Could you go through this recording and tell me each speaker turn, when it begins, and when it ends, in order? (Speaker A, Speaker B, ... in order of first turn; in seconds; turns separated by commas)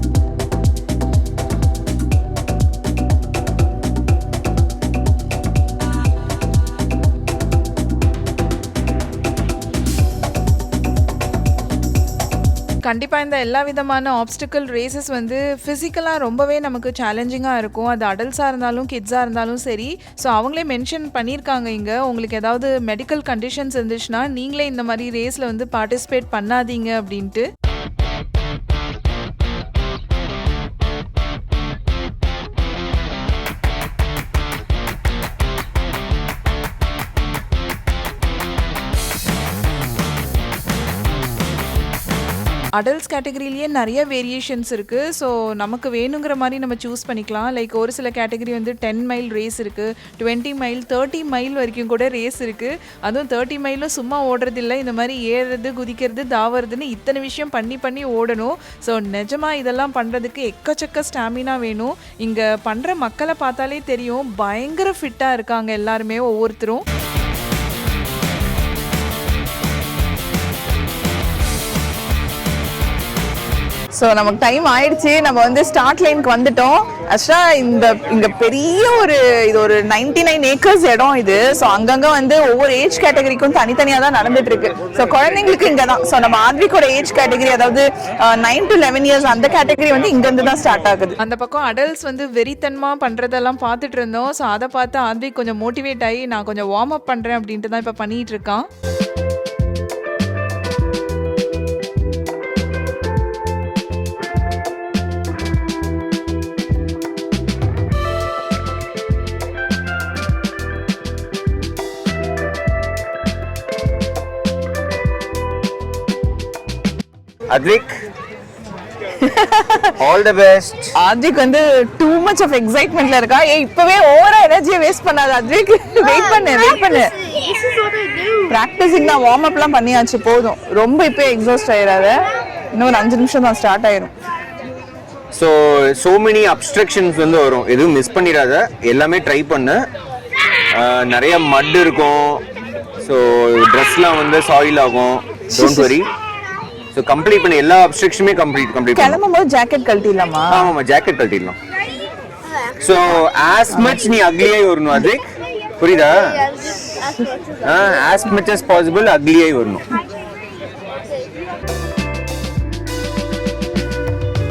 Speaker A: 12.8-27.4, Speaker A: 42.8-66.8, Speaker B: 73.9-91.2, Speaker A: 91.2-98.7, Speaker C: 117.5-117.9, Speaker B: 119.2-119.9, Speaker C: 120.0-120.9, Speaker B: 121.0-127.1, Speaker B: 128.5-132.1, Speaker B: 132.7-134.1, Speaker C: 135.3-139.8, Speaker C: 140.7-142.4, Speaker C: 143.0-146.1, Speaker B: 145.5-145.9, Speaker C: 146.9-149.2, Speaker B: 148.9-150.7, Speaker C: 150.5-151.5, Speaker C: 152.8-155.2, Speaker B: 153.7-154.1, Speaker C: 155.8-156.5, Speaker C: 157.6-159.8